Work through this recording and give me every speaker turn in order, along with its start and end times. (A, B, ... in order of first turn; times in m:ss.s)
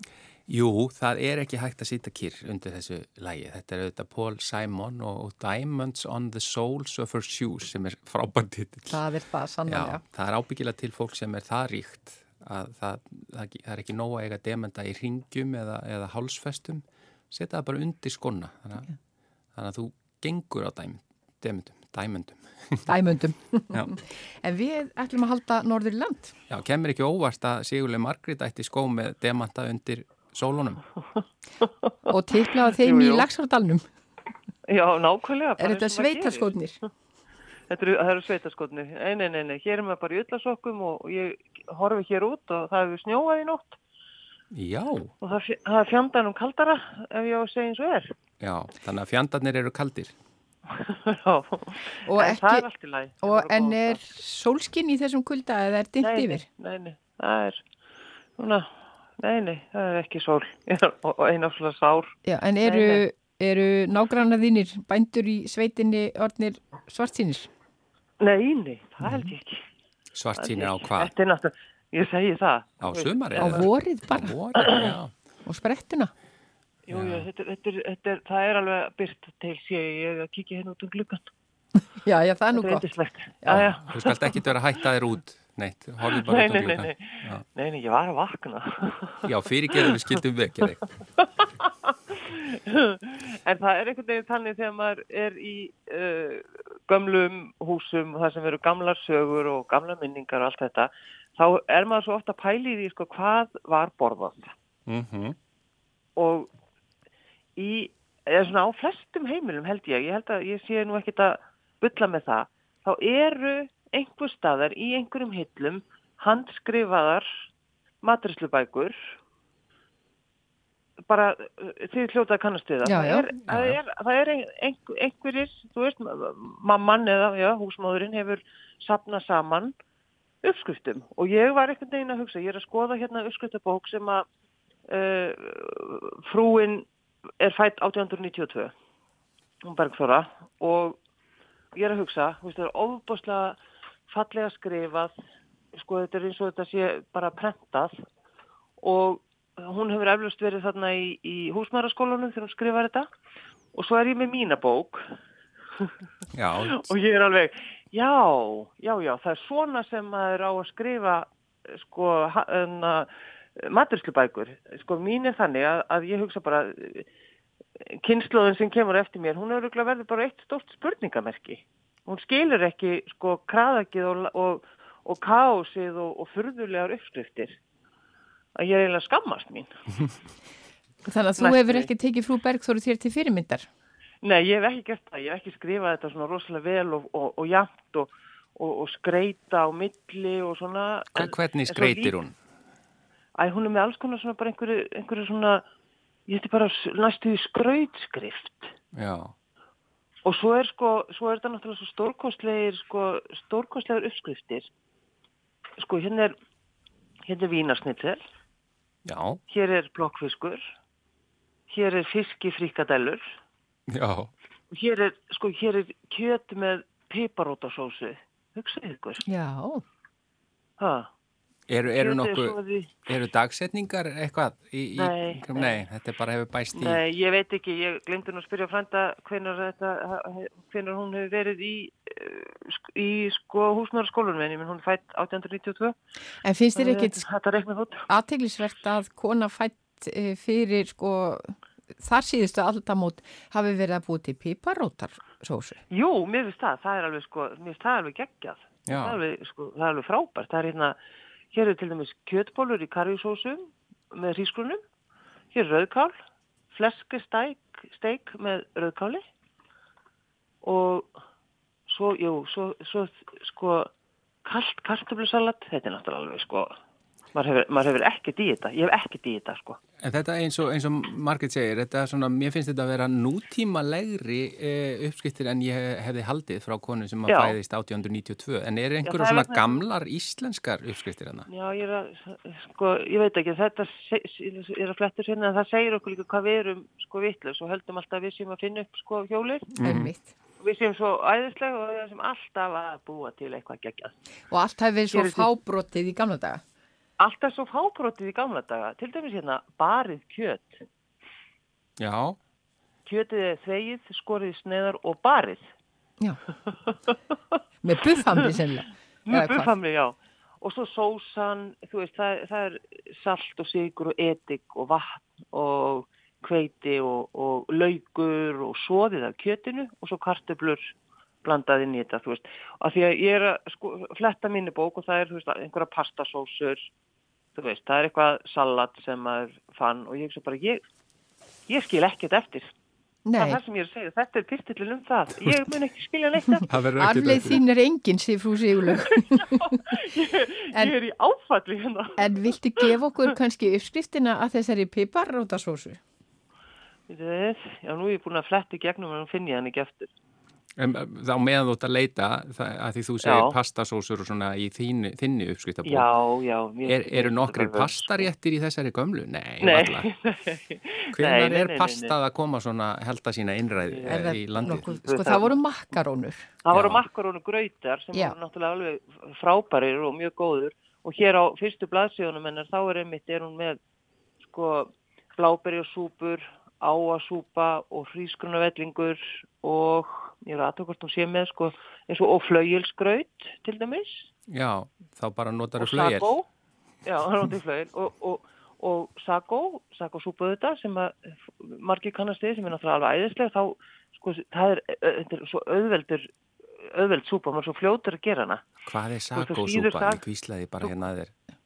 0:00.5-0:09.0 A
0:08.9-0:10.0 B
0:09.7-0:18.9 A
0:19.6-0:22.9 A
0:22.9-0:26.3 B
0:26.5-0:30.8 A
0:31.6-0:32.1 C
0:32.1-0:33.8 B
0:32.7-0:33.3 C
0:34.7-0:36.5 C
0:35.6-0:36.8 B
0:37.7-0:43.8 C
0:44.5-0:45.1 A
0:45.2-0:48.1 C
0:48.4-0:50.2 A
0:50.7-0:54.1 C
0:52.1-0:52.6 B
0:53.2-0:56.4 B
0:56.0-0:57.6 C
0:58.4-0:58.6 C
0:59.2-1:03.0 C
1:02.2-1:07.5 B
1:08.2-1:09.6 C
1:10.1-1:11.1 A
1:10.4-1:13.7 C
1:12.8-1:15.1 A
1:13.4-1:14.4 B
1:14.6-1:14.9 C
1:15.5-1:16.1 B
1:16.9-1:21.2 C
1:16.9-1:17.3 A
1:22.0-1:22.8 B
1:22.5-1:24.4 C
1:23.5-1:27.4 A
1:26.1-1:30.2 C
1:29.2-1:30.8 A
1:31.2-1:44.5 C
1:44.9-1:45.4 A
1:46.2-1:46.5 C
1:47.6-1:57.3 C
1:58.0-1:59.0 C
2:01.1-2:09.7 C
2:02.8-2:03.3 B
2:03.5-2:03.8 A
2:10.4-2:14.3 C
2:14.9-2:16.9 C
2:17.4-2:18.7 C
2:19.6-2:21.0 C
2:21.7-2:23.6 C
2:24.1-2:25.1 C
2:25.8-2:27.9 C
2:28.8-2:33.0 C
2:33.7-2:35.0 C
2:36.3-2:36.8 A
2:36.6-2:47.1 C
2:47.8-2:57.6 C
2:58.6-2:59.7 C
3:01.1-3:03.7 B
3:01.4-3:01.9 C
3:04.2-3:12.2 C
3:11.2-3:12.4 A
3:13.4-3:15.6 C
3:16.3-3:18.7 C
3:18.9-3:19.3 A
3:20.2-3:24.7 C
3:25.8-3:26.3 C
3:27.3-3:28.2 C
3:29.1-3:29.4 A
3:29.5-3:30.6 C
3:31.7-3:33.2 C
3:33.9-3:34.3 A
3:34.7-3:39.2 C
3:39.2-3:39.8 B
3:40.8-3:41.1 C
3:41.7-3:47.0 A
3:42.0-3:42.9 C
3:45.0-3:45.8 C
3:46.8-3:56.0 C
3:56.4-3:57.2 B
3:56.8-3:58.1 C
3:58.1-4:05.8 B
4:05.9-4:11.0 C
4:08.9-4:09.2 A
4:11.5-4:14.8 C
4:15.5-4:16.1 C
4:16.7-4:19.2 C
4:20.6-4:21.1 C
4:21.9-4:23.9 C
4:24.4-4:26.7 C
4:27.3-4:29.8 C
4:30.0-4:41.5 A
4:37.3-4:37.6 C
4:39.1-4:39.8 C
4:41.5-4:49.7 C
4:49.7-4:50.1 A
4:49.8-4:50.3 B
4:50.6-4:54.1 C
4:54.5-4:56.6 B
4:55.1-4:55.5 C
4:57.2-5:00.8 C
5:02.0-5:02.4 A
5:03.1-5:05.6 C
5:06.7-5:07.1 C
5:07.8-5:09.7 B
5:09.3-5:20.8 C
5:21.4-5:26.9 C
5:27.6-5:30.8 C
5:31.7-5:32.7 C
5:33.3-5:33.6 B
5:33.4-5:36.7 C
5:36.7-5:37.6 A
5:37.0-5:39.6 B
5:39.1-5:43.3 C
5:42.2-5:46.0 B
5:47.1-5:50.1 C
5:50.8-5:56.1 A
5:53.2-5:53.6 C
5:55.8-5:58.3 C
5:56.9-6:00.1 A
5:59.6-6:02.1 C
6:01.1-6:05.0 A
6:03.9-6:05.6 C
6:04.1-6:06.5 B
6:06.6-6:13.8 C
6:06.7-6:07.0 A
6:14.4-6:24.3 C
6:24.5-6:26.3 A
6:25.8-6:26.5 C
6:27.0-6:36.3 C
6:36.8-6:38.6 C
6:38.9-6:41.3 A
6:39.4-6:40.2 C